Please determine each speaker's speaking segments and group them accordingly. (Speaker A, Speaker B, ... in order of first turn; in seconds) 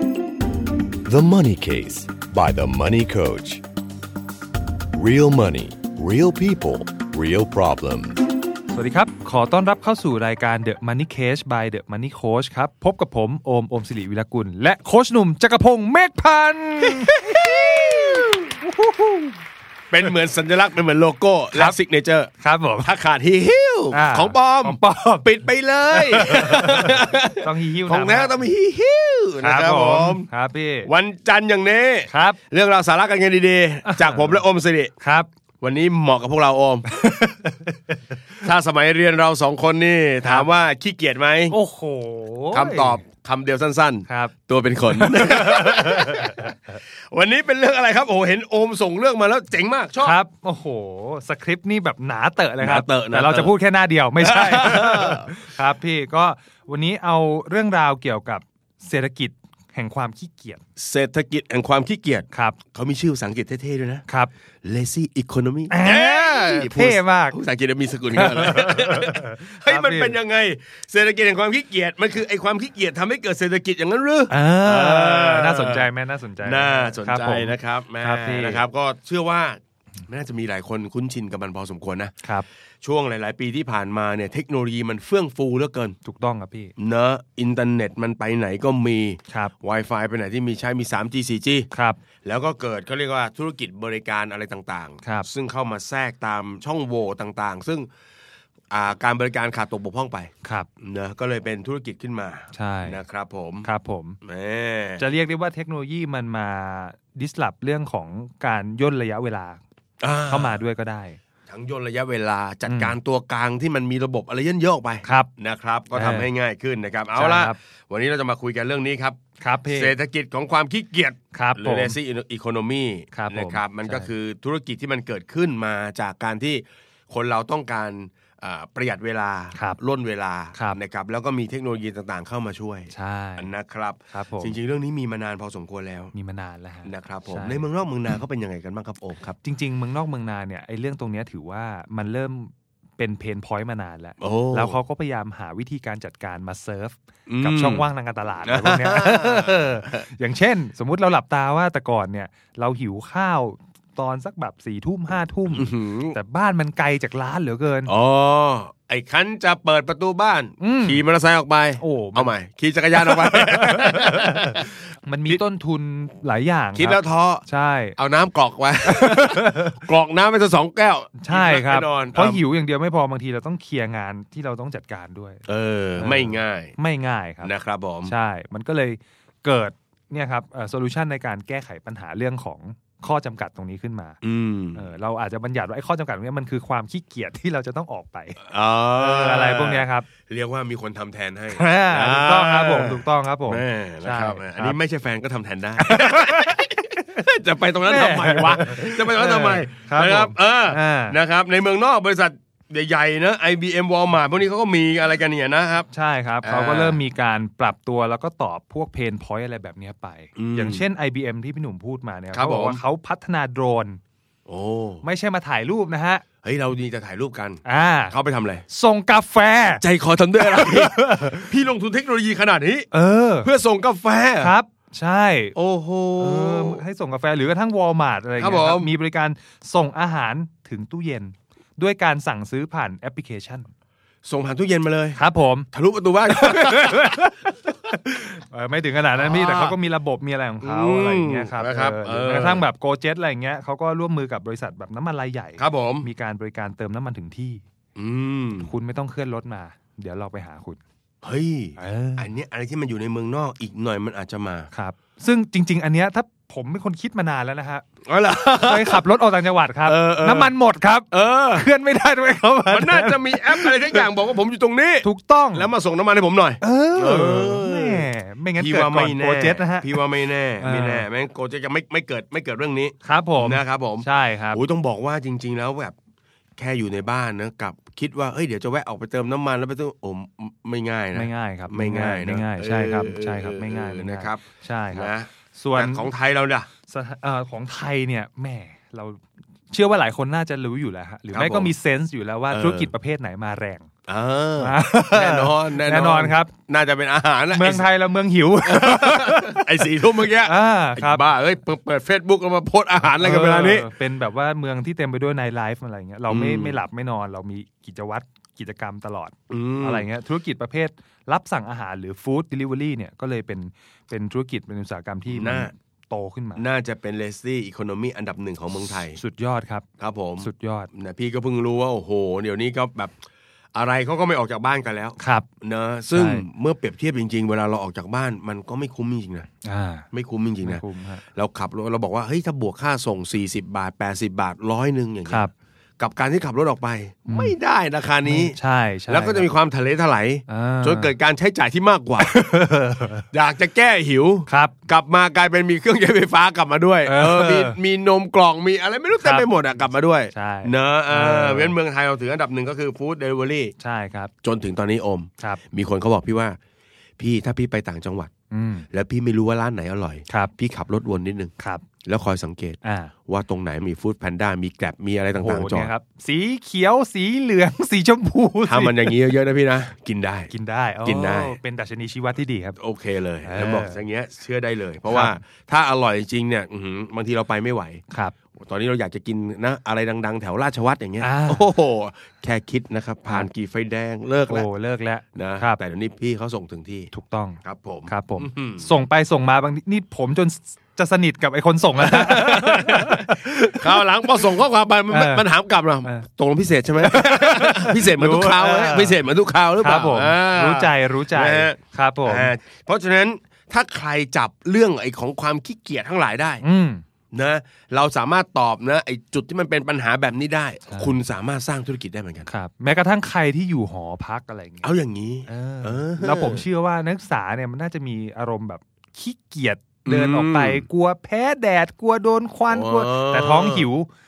Speaker A: 1.0-3.6, 4.9-8.2
Speaker B: 8.7-17.5, 18.6-19.4, 22.4-22.9, 23.9-25.2, 25.9-28.4, 29.4-30.9, 32.1-32.4, 33.8-34.4, 35.0-35.3, 36.9-37.8, 41.5-43.0, 44.1-44.3, 44.9-46.5, 50.0-60.6, 62.3-62.6, 65.7-67.4, 68.1-70.1, 74.3-78.6, 86.0-86.7, 91.7-92.0, 95.0-95.3, 102.5-103.0, 103.6-104.2, 105.0-109.6, 110.3-111.2, 112.7-112.9, 115.0-115.3, 115.9-116.3, 117.1-117.5, 119.4-119.9, 121.3-122.0, 123.1-124.1, 130.5-130.8, 132.9-133.5, 134.1-134.6, 136.1-137.6, 139.4-157.9, 160.6-161.0, 161.8-162.3, 162.9-167.9, 168.8-169.8, 171.2-175.4, 176.0-177.5, 178.1-184.2, 184.7-188.4, 188.9-190.1, 191.5-194.8, 195.8-196.7, 197.8-201.2, 205.9-214.0, 215.0-216.2, 217.6-218.1, 218.7-219.8, 220.4-221.5, 222.9-223.5, 224.4-225.6, 226.2-233.7, 235.2-235.7, 236.3-247.6, 248.6-250.8, 251.8-252.3, 254.7-257.8, 258.6-264.1, 265.0-265.7, 266.6-270.0, 270.6-271.1, 273.0-274.6, 281.1-286.1, 286.9-293.9, 294.6-296.5, 297.5-301.2, 303.2-316.6, 319.0-319.9, 320.4-320.9, 325.2-325.5, 326.1-326.4, 329.6-330.1, 330.6-331.2, 337.3-337.5, 338.2-339.5, 340.5-341.1, 342.2-343.2, 344.5-344.7, 347.1-347.8, 349.2-349.5, 350.3-351.7, 353.8-354.3, 358.5-358.9, 361.6-361.8, 362.8-363.1, 365.3-369.2, 370.5-372.8, 373.4-374.0, 375.1-375.3, 381.2-381.6, 384.5-385.8, 387.1-394.0, 395.1-395.4, 397.0-399.2, 399.8-402.5, 406.6-407.0, 412.5-414.9, 415.5-424.1
Speaker C: 16.8-18.5, 19.9-22.3, 22.8-30.3, 30.8-34.9, 35.6-36.9, 38.4-41.5, 42.5-50.1, 52.6-53.5, 54.2-55.3, 60.8-64.0, 64.6-75.9, 76.4-82.1, 82.8-86.0, 86.8-91.7, 92.2-97.9, 98.7-103.7, 104.2-105.0, 110.0-110.6, 111.5-136.1, 136.8-139.4, 144.2-144.7, 147.3-147.9, 148.4-150.1, 155.5-156.2, 157.9-164.7, 166.8-167.4, 168.0-172.4, 175.5-176.7, 177.4-178.1, 184.2-184.9, 188.4-205.9, 206.4-207.0, 210.4-210.8, 212.3-212.8, 214.5-215.0, 216.4-218.6, 219.8-222.9, 223.4-224.5, 225.5-226.8, 228.4-228.9, 234.2-235.2, 235.7-237.2, 239.2-239.8, 240.6-242.6, 245.6-246.1, 247.9-248.7, 251.2-254.7, 258.0-259.0, 259.9-260.5, 261.1-261.7, 262.7-275.9, 276.6-286.7, 291.3-291.7, 292.5-292.9, 294.1-297.9, 298.6-303.9, 306.3-306.8, 309.5-310.1, 315.3-315.7, 316.6-319.2, 320.0-323.1, 323.7-329.5, 330.1-335.4, 336.0-338.6, 339.1-342.3, 343.3-353.7, 354.4-356.6, 357.2-358.3, 358.9-361.5, 362.0-365.9, 368.7-370.5, 371.0-371.6, 372.8-378.0, 378.5-384.6, 385.3-387.1, 387.6-388.9, 392.0-406.6, 407.3-412.5, 414.8-416.6, 420.0-420.9, 422.7-423.9